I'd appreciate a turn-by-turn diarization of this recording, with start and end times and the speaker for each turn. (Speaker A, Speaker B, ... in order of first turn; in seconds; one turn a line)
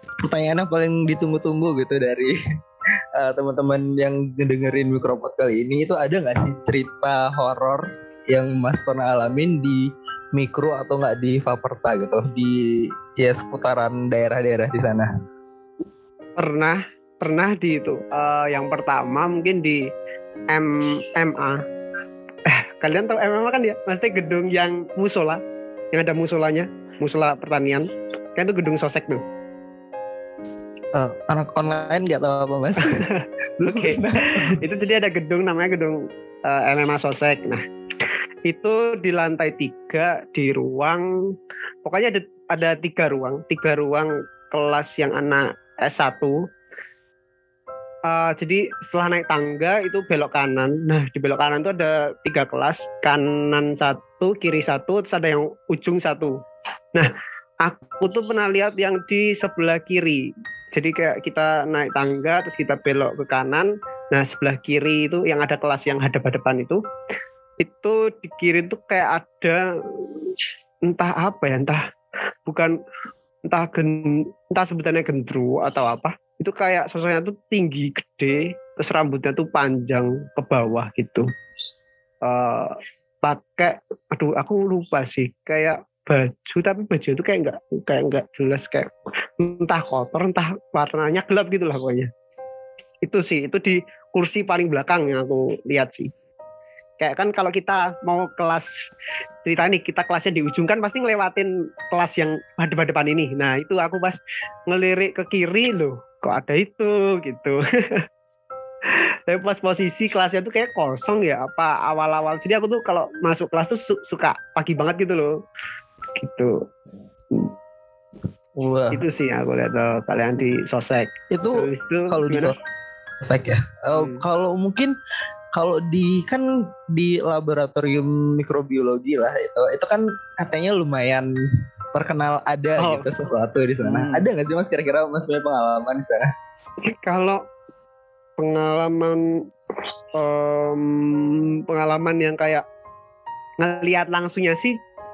Speaker A: 0.2-2.3
Speaker A: 3.2-15.1
Speaker B: 16.4-19.8
Speaker B: 20.5-21.6
Speaker B: 22.4-25.4
Speaker B: 25.9-29.2
Speaker A: 30.9-33.0
Speaker B: 32.9-37.6
Speaker A: 33.6-34.6
Speaker B: 38.5-41.0
Speaker B: 41.8-46.4
Speaker B: 48.1-56.4
Speaker B: 57.6-66.8
Speaker B: 67.6-69.6
Speaker B: 70.9-71.8
Speaker B: 72.5-72.8
Speaker B: 73.5-81.2
Speaker B: 82.2-92.1
Speaker B: 93.0-96.1
Speaker B: 97.0-98.7
Speaker B: 99.4-108.0
Speaker B: 108.9-115.3
Speaker B: 116.2-116.5
Speaker A: 118.6-119.0
Speaker B: 118.9-122.5
Speaker A: 121.3-122.5
Speaker A: 123.2-124.9
Speaker B: 123.9-124.2
Speaker A: 125.5-131.3
Speaker A: 131.9-136.3
Speaker B: 132.8-133.1
Speaker B: 133.8-134.3
Speaker B: 137.0-137.4
Speaker B: 138.4-139.2
Speaker B: 140.1-142.6
Speaker B: 143.6-144.8